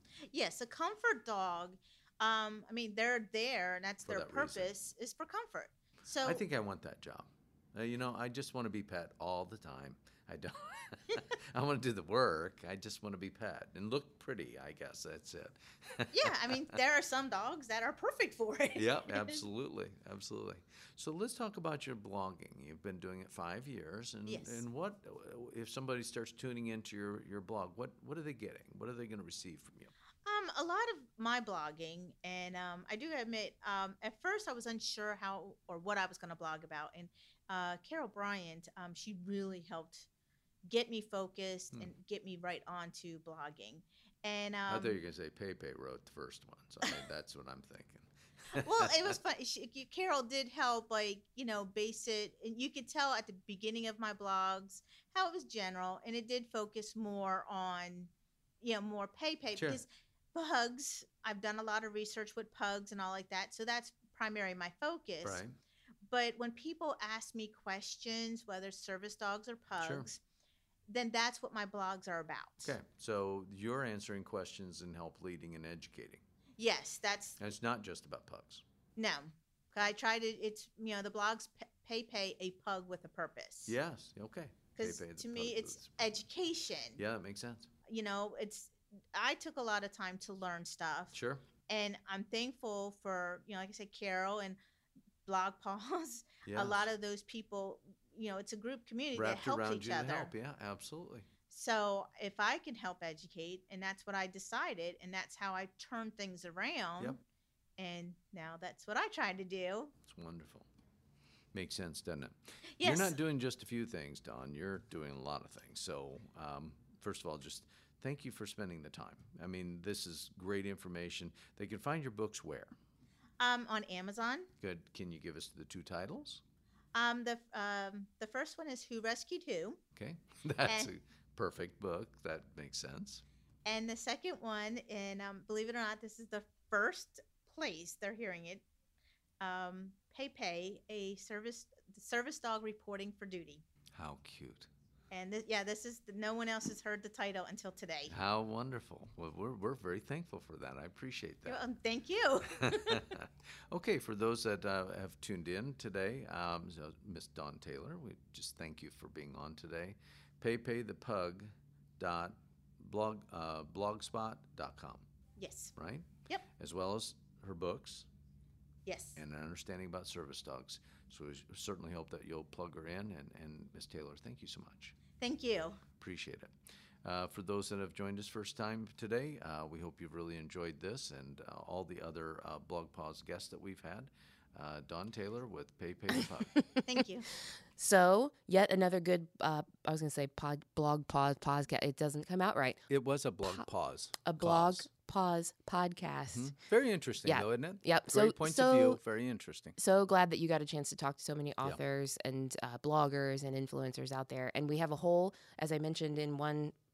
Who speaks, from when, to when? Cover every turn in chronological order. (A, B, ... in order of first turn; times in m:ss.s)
0:00.3-0:06.4 A
0:04.0-0:04.7 B
0:06.2-0:16.7 B
0:16.1-0:19.4 A
0:18.8-0:29.9 B
0:24.2-0:24.6 A
0:30.2-0:40.1 A
0:40.7-0:45.0 A
0:44.7-0:49.2 B
0:48.6-1:05.4 A
0:59.6-0:59.8 B
1:05.2-1:05.6 B
1:06.1-1:10.2 A
1:09.8-1:10.1 B
1:10.9-1:12.8 A
1:12.6-1:16.2 B
1:16.6-1:17.4 A
1:17.4-1:18.6 B
1:19.0-1:23.8 A
1:23.7-1:26.1 B
1:24.8-1:27.0 A
1:27.0-1:27.7 B
1:27.9-1:31.2 A
1:31.1-1:31.4 B
1:31.7-1:34.6 A
1:35.2-1:40.3 A
1:36.5-1:36.9 B
1:39.1-1:41.3 B
1:41.5-1:47.2 A
1:47.8-1:49.9 A
1:50.1-1:50.7 B
1:51.5-2:02.7 B
1:52.7-1:53.2 A
2:03.4-2:04.5 A
2:04.6-2:06.4 B
2:06.9-2:09.8 A
2:10.0-2:13.2 B
2:10.6-2:10.9 A
2:13.6-2:18.6 A
2:19.4-2:23.6 A
2:23.9-2:24.7 B
2:25.1-2:28.2 A
2:28.1-2:31.6 B
2:31.5-2:33.2 A
2:32.6-2:45.0 B
2:45.4-2:45.7 A
2:45.8-2:48.1 B
2:48.9-2:49.2 A
2:49.2-2:55.0 B
2:55.2-2:55.8 A
2:56.0-2:56.5 B
2:57.0-3:06.6 B
3:06.8-3:07.3 A
3:07.8-3:12.8 C
3:12.9-3:14.9 B
3:14.2-3:16.6 C
3:16.3-3:19.8 B
3:17.2-3:19.0 C
3:19.8-3:26.7 C